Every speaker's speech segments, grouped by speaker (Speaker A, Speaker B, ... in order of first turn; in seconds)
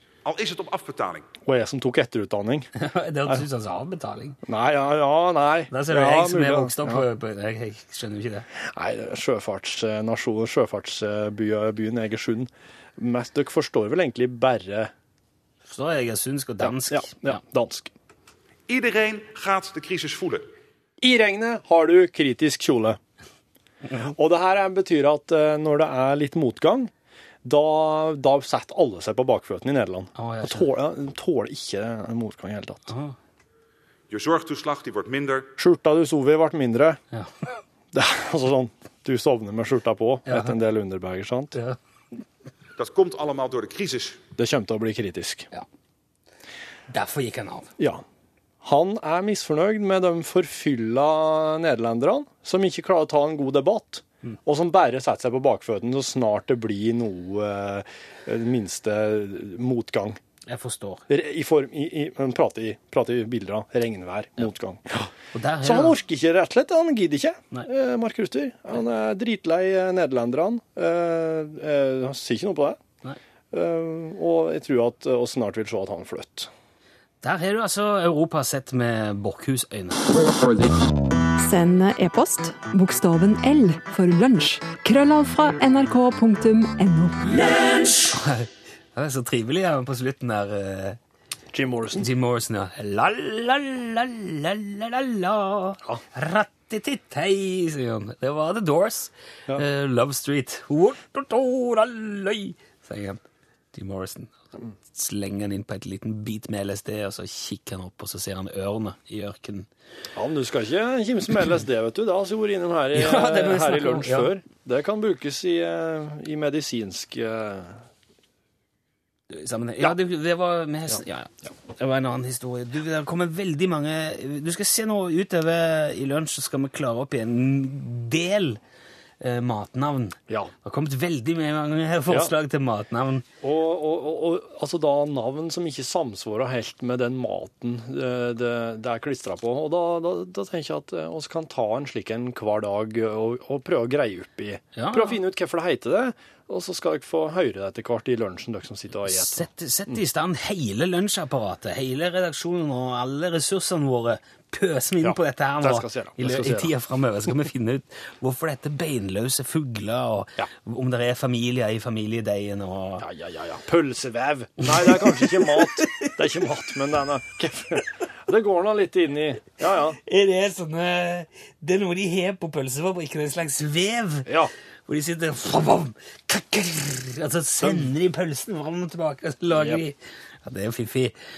Speaker A: 0.2-1.3, 18.7-20.5, 34.1-35.5, 42.8-44.2
Speaker B: 1.4-2.7, 4.5-7.0, 8.6-14.9, 16.6-17.9, 21.0-23.0, 24.0-26.9, 27.4-32.9, 35.6-37.0, 37.9-41.6, 44.4-45.5, 47.8-48.0, 48.6-60.2, 61.1-65.1, 65.6-72.8, 73.5-76.5, 91.5-92.1, 110.2-117.8, 133.4-150.0, 155.0-156.7, 163.0-170.0, 174.2-174.5, 177.6-177.9, 179.5-179.8
Speaker C: 2.7-4.4, 5.7-8.5, 15.6-17.4, 30.1-30.7, 32.9-33.1, 40.3-40.5, 46.9-47.7, 60.5-61.0, 65.3-66.0, 77.2-80.3, 87.9-91.0, 91.9-104.3, 104.9-109.7, 112.9-114.3, 119.3-128.6, 129.2-133.2, 144.7-145.2, 149.0-163.1, 164.7-166.1, 170.0-174.3, 174.9-181.1
Speaker D: 81.4-87.4